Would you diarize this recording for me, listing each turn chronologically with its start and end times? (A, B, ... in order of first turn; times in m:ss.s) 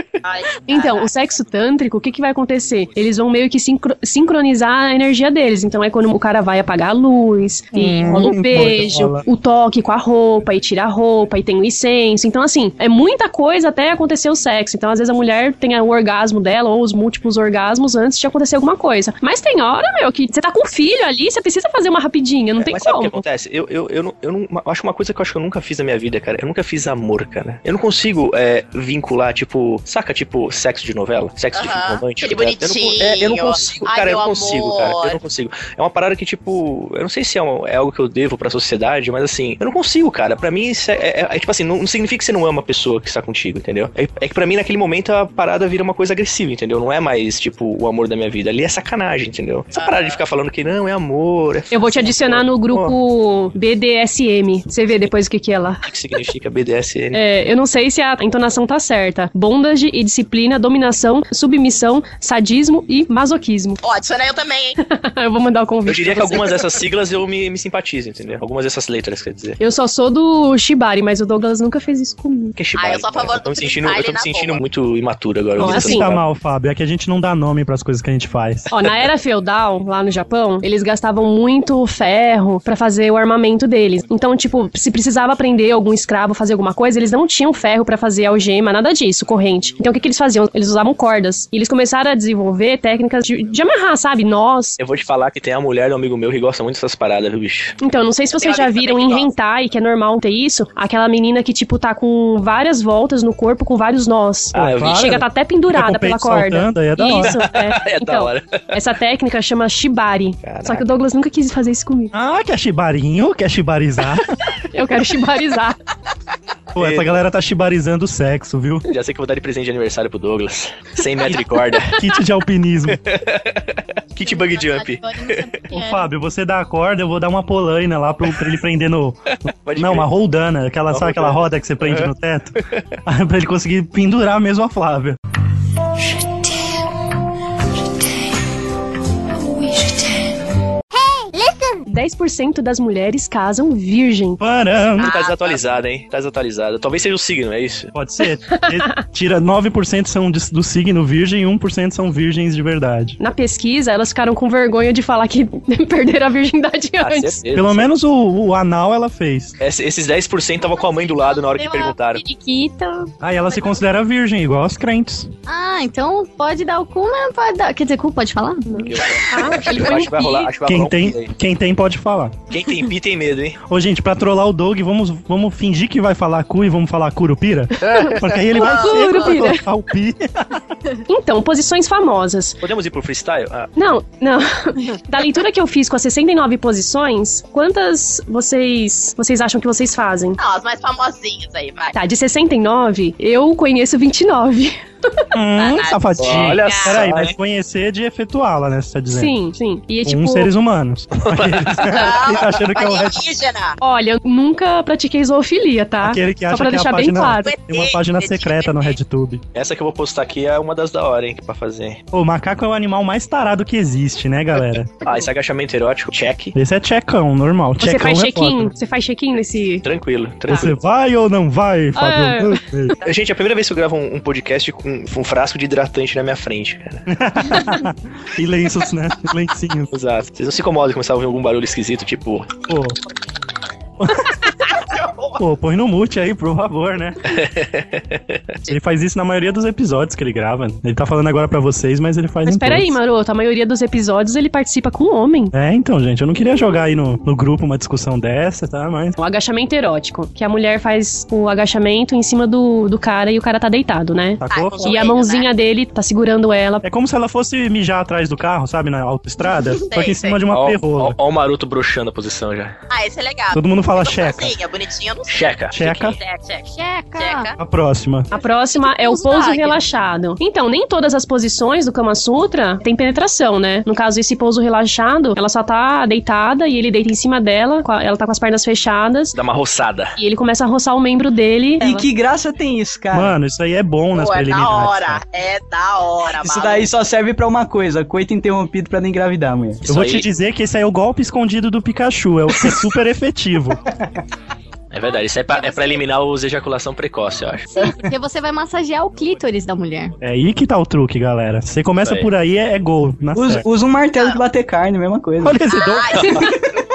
0:00.2-0:01.1 A
0:00.7-0:23.2 B
0:07.7-0:09.2 C
0:22.6-0:52.9 D
0:31.5-0:35.2 A
0:49.7-0:50.2 A
0:51.7-0:55.9 B
0:55.8-0:57.2 D
0:57.1-1:03.8 B
1:03.8-1:04.8 A
1:04.8-1:06.8 B
1:05.8-1:09.6 D
1:09.6-1:12.6 B
1:12.5-1:16.2 D
1:12.7-1:14.6 A
1:15.6-1:18.7 C
1:15.6-1:16.1 B
1:18.7-1:34.8 B
1:34.8-1:37.8 D
1:37.8-1:52.1 B
1:38.4-1:39.2 D
1:44.5-1:45.2 D
1:44.5-1:47.4 C
1:47.2-1:48.8 D
1:50.4-1:50.8 D
1:52.1-1:54.4 C
1:54.7-1:55.7 B
1:56.7-1:58.8 C
1:56.8-1:57.2 D
1:58.9-2:02.0 D
2:01.9-2:03.0 C
2:02.9-2:05.7 D
2:04.2-2:06.1 E
2:05.7-2:15.2 C
2:09.3-2:10.1 D
2:10.9-2:12.1 D
2:21.0-2:21.7 E
2:21.9-2:24.4 B
2:24.4-2:25.1 C
2:25.0-2:25.6 A
2:25.0-2:27.9 D
2:27.9-2:33.2 C
2:28.2-2:29.0 B
2:33.2-2:37.4 B
2:37.0-2:37.9 D
2:37.5-2:39.6 C
2:39.6-2:42.2 D
2:40.7-2:43.8 E
2:43.2-2:45.3 C
2:45.4-2:49.7 E
2:48.7-2:50.6 B
2:48.9-2:51.3 D
2:50.6-2:52.4 C
2:52.5-2:53.6 D
2:52.6-2:52.9 E
2:53.7-3:00.6 C
2:58.0-2:59.6 B
2:58.6-2:59.3 A
3:01.1-3:02.6 B
3:02.6-3:03.7 D
3:03.8-3:10.4 B
3:10.4-3:11.9 A
3:11.9-3:15.3 B
3:15.3-3:19.3 C
3:15.6-3:17.0 A
3:16.2-3:17.3 D
3:19.1-3:20.5 B
3:20.0-3:23.2 C
3:21.2-3:22.6 D
3:21.9-3:23.8 A
3:23.8-3:27.5 B
3:26.0-3:29.4 C
3:27.4-3:29.0 A
3:29.5-3:32.0 D
3:32.1-3:35.0 C
3:35.0-3:36.5 D
3:36.5-3:38.7 C
3:37.8-3:39.9 B
3:39.8-3:40.7 D
3:40.5-3:43.0 C
3:42.0-3:42.6 B
3:43.0-3:47.0 D
3:47.1-3:49.9 C
3:49.9-3:52.5 D
3:52.7-3:53.0 C
3:54.0-3:54.4 C
3:54.9-3:55.4 A
3:55.4-3:57.3 C
3:57.3-3:58.4 D
3:58.7-4:03.0 C
4:02.4-4:05.5 B
4:05.5-4:09.2 C
4:09.2-4:16.9 B
4:14.4-4:15.0 C
4:14.5-4:15.5 A
4:16.8-4:21.2 C
4:19.9-4:20.4 A
4:20.5-4:22.7 D
4:22.9-4:27.6 A
4:23.5-4:24.5 C
4:25.3-4:26.1 D
4:25.7-4:26.2 C
4:26.7-4:27.5 E
4:27.6-4:28.3 C
4:28.3-4:39.4 B
4:28.3-4:29.8 E
4:39.3-4:40.2 D
4:40.2-4:42.1 B
4:41.8-4:43.4 F
4:43.1-4:45.2 C
4:44.1-4:46.9 A
4:46.4-4:49.8 F
4:49.8-4:50.3 D
4:49.9-4:53.8 C
4:54.9-4:57.7 D
4:55.5-4:56.0 E
4:57.7-5:00.1 E
5:00.2-5:03.7 C
5:02.0-5:02.3 D
5:03.3-5:05.6 F
5:04.2-5:04.4 A
5:05.4-5:06.1 C
5:05.7-5:06.4 A
5:06.1-5:06.4 D
5:06.2-5:06.6 B